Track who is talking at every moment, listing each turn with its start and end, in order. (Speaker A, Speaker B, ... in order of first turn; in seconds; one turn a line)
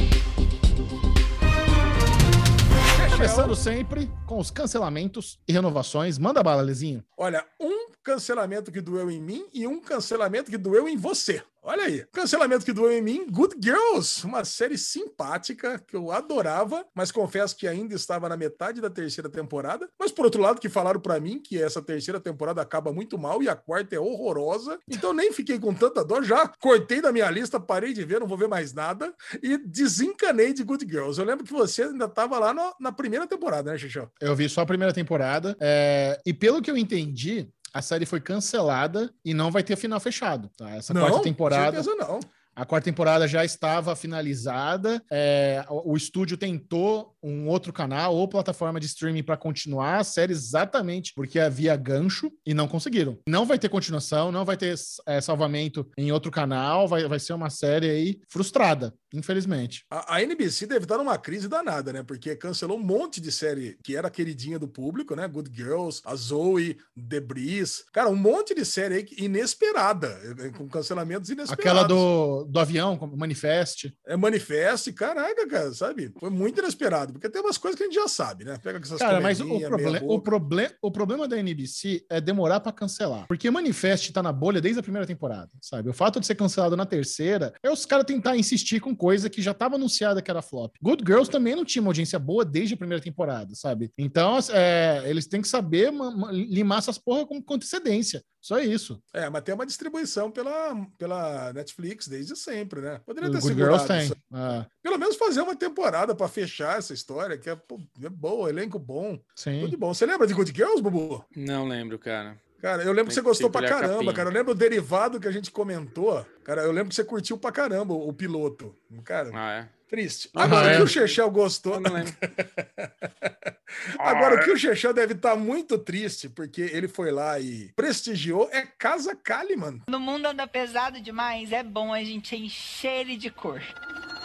Speaker A: 2.9-3.6
Speaker B: 3.1-7.0
Speaker A: 7.2-34.1
Speaker B: 34.2-41.9
Speaker A: 40.9-42.3
Speaker B: 42.5-59.8
Speaker A: 59.9-72.1
Speaker B: 71.5-73.9
Speaker A: 74.0-80.3
Speaker B: 79.0-99.0
Speaker A: 99.1-111.2
Speaker B: 103.2-104.7
Speaker B: 109.4-109.7
Speaker C: 111.3-112.4
Speaker A: 112.6-119.4
Speaker C: 113.1-114.3
Speaker C: 119.3-119.7
Speaker A: 119.9-129.8
Speaker B: 120.3-120.9
Speaker C: 120.4-121.2
Speaker C: 121.7-122.1
Speaker C: 124.0-124.5
Speaker D: 129.9-133.7